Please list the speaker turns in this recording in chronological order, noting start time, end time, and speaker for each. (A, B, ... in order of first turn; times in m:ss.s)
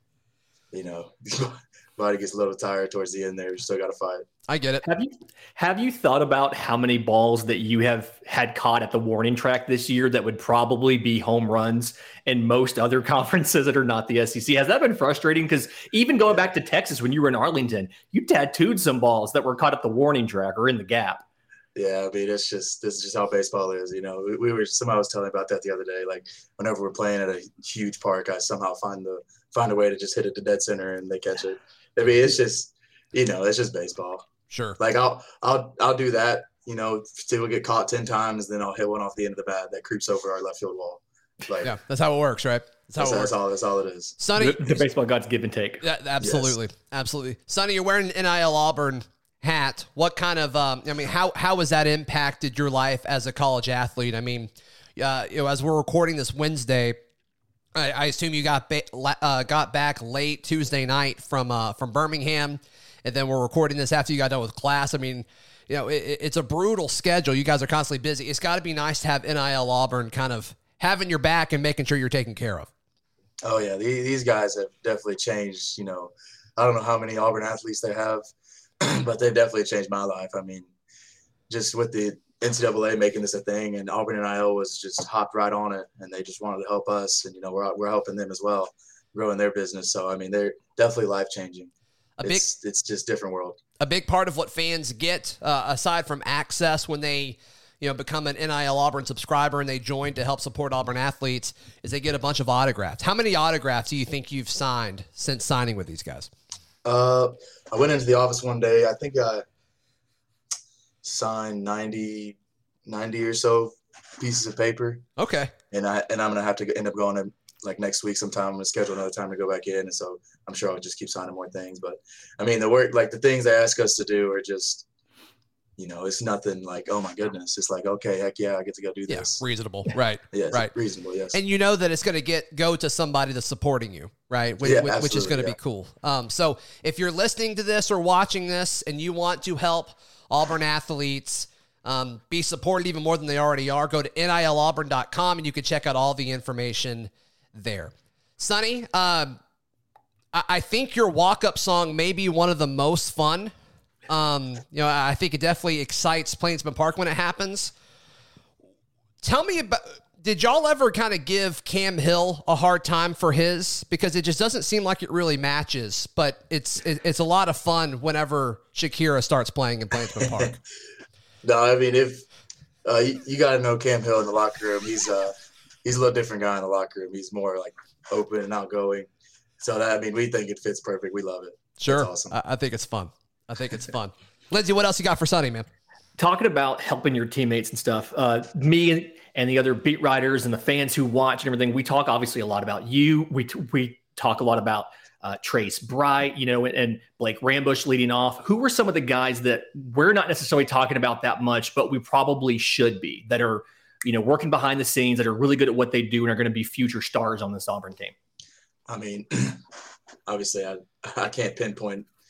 0:00.7-0:04.2 A
0:04.5-0:04.8 B
0:04.8-0:21.2 C
0:21.7-0:34.2 A
0:34.5-0:34.8 B
0:34.8-0:41.7 A
0:41.6-0:43.3 B
0:43.0-0:44.2 A
0:44.2-0:44.8 B
0:44.4-0:45.8 C
0:45.8-0:57.0 B
0:46.2-0:46.5 A
0:57.7-1:12.7 B
1:13.4-1:18.2 A
1:18.8-1:20.7 A
1:21.5-1:31.7 A
1:32.2-1:33.6 A
1:33.8-1:46.3 B
1:46.8-1:49.4 A
1:51.0-1:55.0 A
1:55.2-1:55.5 B
1:55.7-2:04.8 A
2:05.8-2:09.4 A
2:09.1-2:10.7 B
2:10.3-2:11.4 A
2:11.3-2:29.4 B
2:14.6-2:15.6 A
2:30.3-2:33.5 B
2:34.1-2:37.7 B
2:39.2-2:50.5 B
2:51.4-2:52.2 A
2:52.8-2:55.3 A
2:55.8-2:59.1 A
2:59.6-3:02.3 A
3:01.8-3:05.6 B
3:06.2-3:28.1 C
3:28.9-3:29.6 A
3:30.3-3:32.1 A